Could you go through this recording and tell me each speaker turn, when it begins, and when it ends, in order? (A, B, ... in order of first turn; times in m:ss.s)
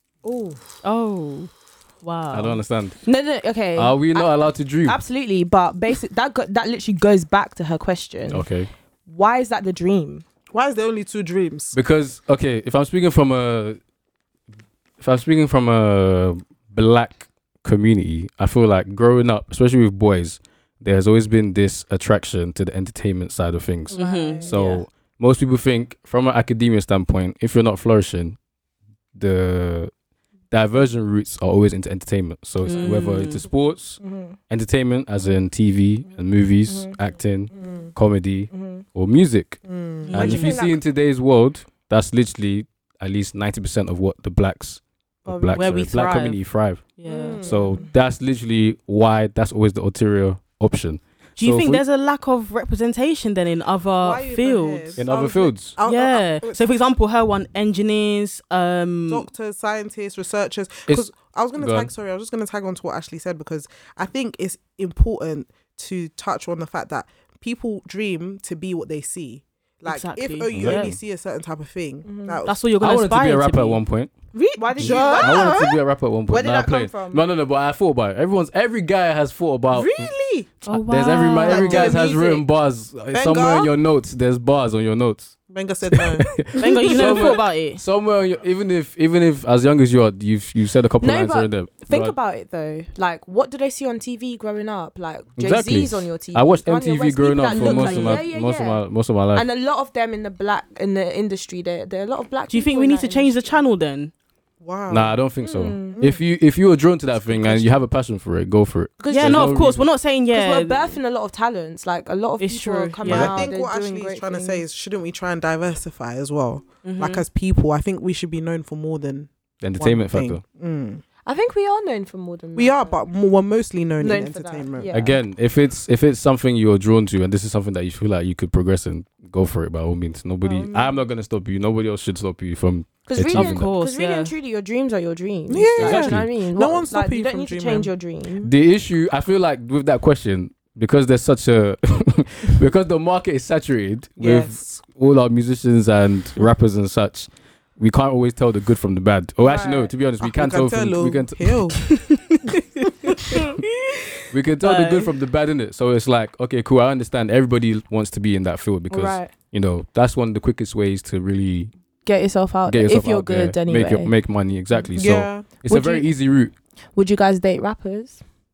0:00.2-0:00.6 A
0:00.8-0:01.5 B
0:02.0-0:02.6 B
0:02.3-0:03.0 C
0:03.1-0:08.5 D
0:03.8-0:05.0 C
0:08.3-0:08.7 C
0:09.1-0:10.2 D
0:10.5-0:11.8 A
0:11.7-0:13.8 C
0:15.0-0:28.4 C
0:23.9-0:24.6 D
0:23.9-0:24.8 B
0:29.2-0:29.9 C
0:30.5-0:46.9 C
0:32.6-0:33.4 B
0:34.0-0:34.4 D
0:36.7-0:37.0 D
0:37.6-0:37.8 D
0:38.5-0:38.8 D
0:39.7-0:40.5 A
0:40.1-0:40.6 B
0:40.1-0:40.8 D
0:45.3-0:45.7 D
0:45.5-0:46.4 B
0:47.0-0:47.4 B
0:47.1-0:47.8 A
0:47.4-0:47.9 D
0:47.4-0:51.8 C
0:51.4-0:55.0 B
0:54.0-0:56.7 A
0:55.0-0:55.7 C
0:55.8-0:59.3 B
0:59.1-1:12.6 A
1:00.9-1:01.9 C
1:09.9-1:11.0 B
1:10.5-1:11.0 C
1:12.1-1:12.4 D
1:12.4-1:13.8 B
1:12.8-1:14.1 C
1:14.3-1:15.2 B
1:14.6-1:15.6 D
1:14.8-1:20.1 C
1:14.8-1:15.8 A
1:16.3-1:17.2 D
1:19.7-1:20.5 A
1:20.6-1:25.4 C
1:20.7-1:22.1 B
1:21.5-1:22.2 A
1:23.1-1:23.7 A
1:25.5-1:26.4 A
1:25.9-1:32.2 C
1:26.6-1:27.8 B
1:31.0-1:38.8 D
1:35.4-1:39.5 C
1:37.5-1:38.2 B
1:39.3-1:43.6 D
1:42.5-1:44.1 B
1:44.6-1:45.2 A
1:44.9-1:49.8 C
1:45.4-1:46.0 D
1:46.0-1:46.2 A
1:47.3-1:47.8 A
1:49.0-1:49.6 D
1:49.1-1:51.0 B
1:50.3-1:54.6 D
1:52.4-1:53.4 B
1:53.1-2:01.0 A
1:56.8-1:57.2 B
1:59.6-2:00.4 C
2:01.3-2:03.0 D
2:02.6-2:04.9 A
2:04.0-2:05.2 D
2:04.9-2:13.7 C
2:10.4-2:10.9 D
2:13.1-2:18.5 D
2:13.3-2:14.3 B
2:15.5-2:17.9 A
2:15.8-2:16.3 C
2:18.4-2:31.6 C
2:24.2-2:24.8 A
2:29.4-2:29.9 D
2:30.2-2:31.8 A
2:32.1-2:35.1 B
2:34.3-2:41.7 C
2:38.9-2:39.3 D
2:42.1-2:44.1 D
2:42.7-2:46.5 C
2:45.0-2:45.5 A
2:45.7-2:46.1 D
2:47.0-2:48.2 D